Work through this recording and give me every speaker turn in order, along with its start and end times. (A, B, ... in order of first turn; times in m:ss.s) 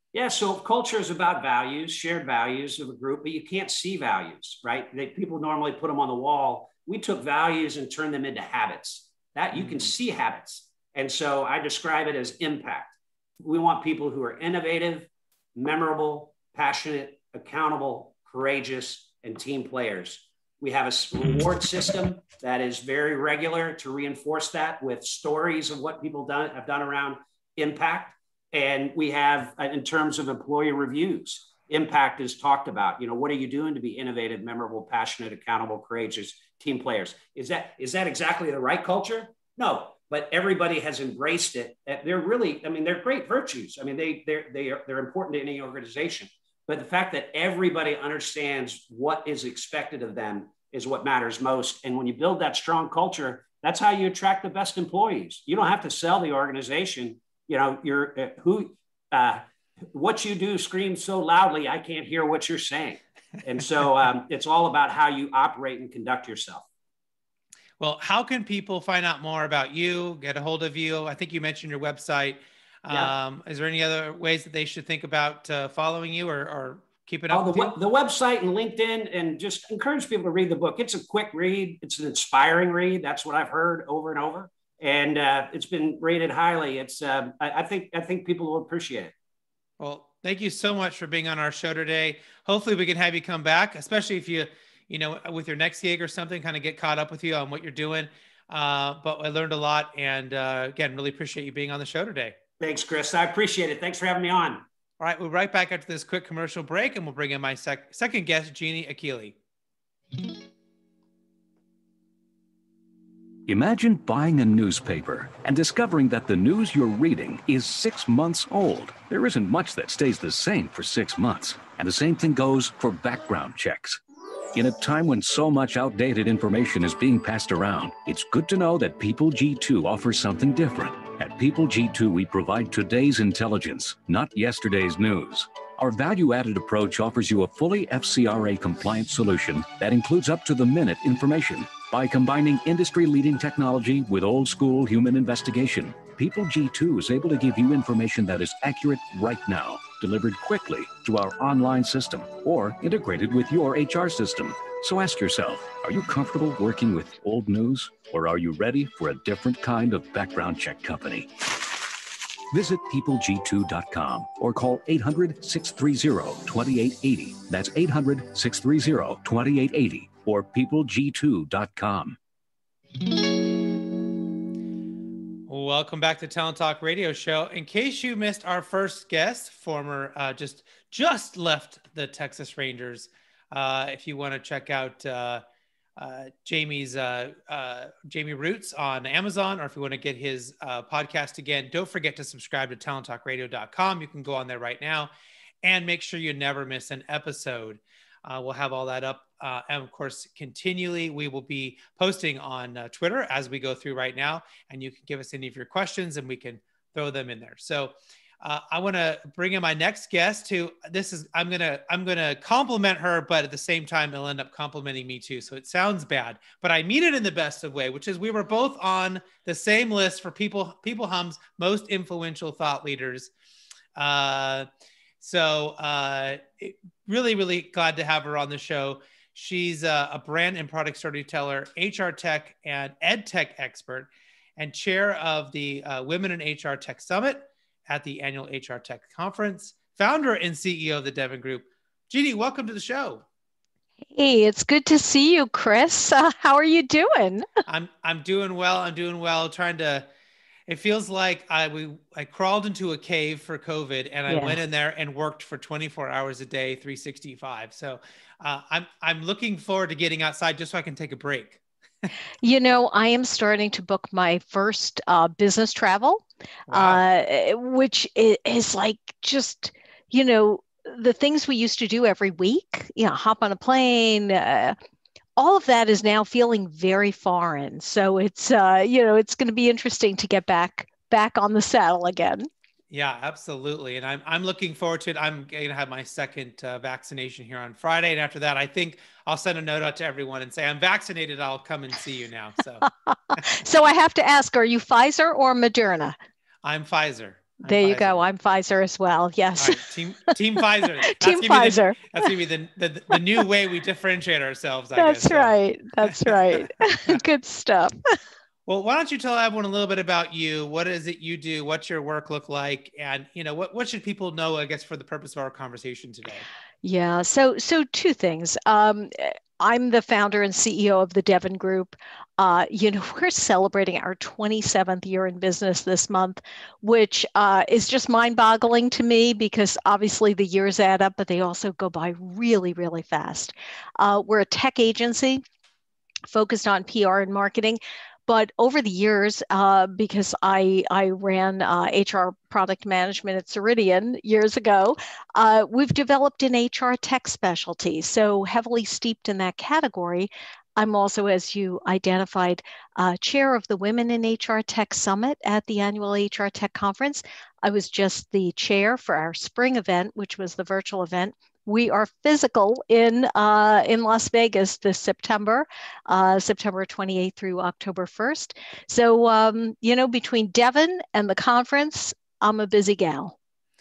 0:00.1-1:06.6 A
1:07.8-1:17.8 B
1:17.3-1:29.1 A
1:29.8-1:42.4 B
1:42.6-1:44.6 A
1:45.0-1:49.4 B
1:53.5-2:04.0 C
2:04.5-2:41.7 C
2:42.5-2:52.2 C
2:55.5-3:05.4 B
3:06.0-3:15.1 B
3:15.6-3:43.3 B
3:44.0-3:44.7 B
3:45.2-4:03.2 B
4:04.1-4:07.5 D
4:07.7-4:10.1 B
4:10.7-4:21.6 B
4:14.3-4:14.6 D
4:22.4-4:34.8 D
4:26.7-4:27.0 B
4:35.4-4:42.5 D
4:42.9-4:53.4 B
4:52.9-4:56.2 D
4:56.6-4:58.3 B
4:57.6-4:59.8 D
4:59.6-5:05.5 B
5:01.0-5:02.3 D
5:05.0-5:08.1 D
5:06.1-5:07.2 B
5:08.7-5:16.5 B
5:16.8-5:35.4 D
5:36.3-6:13.4 D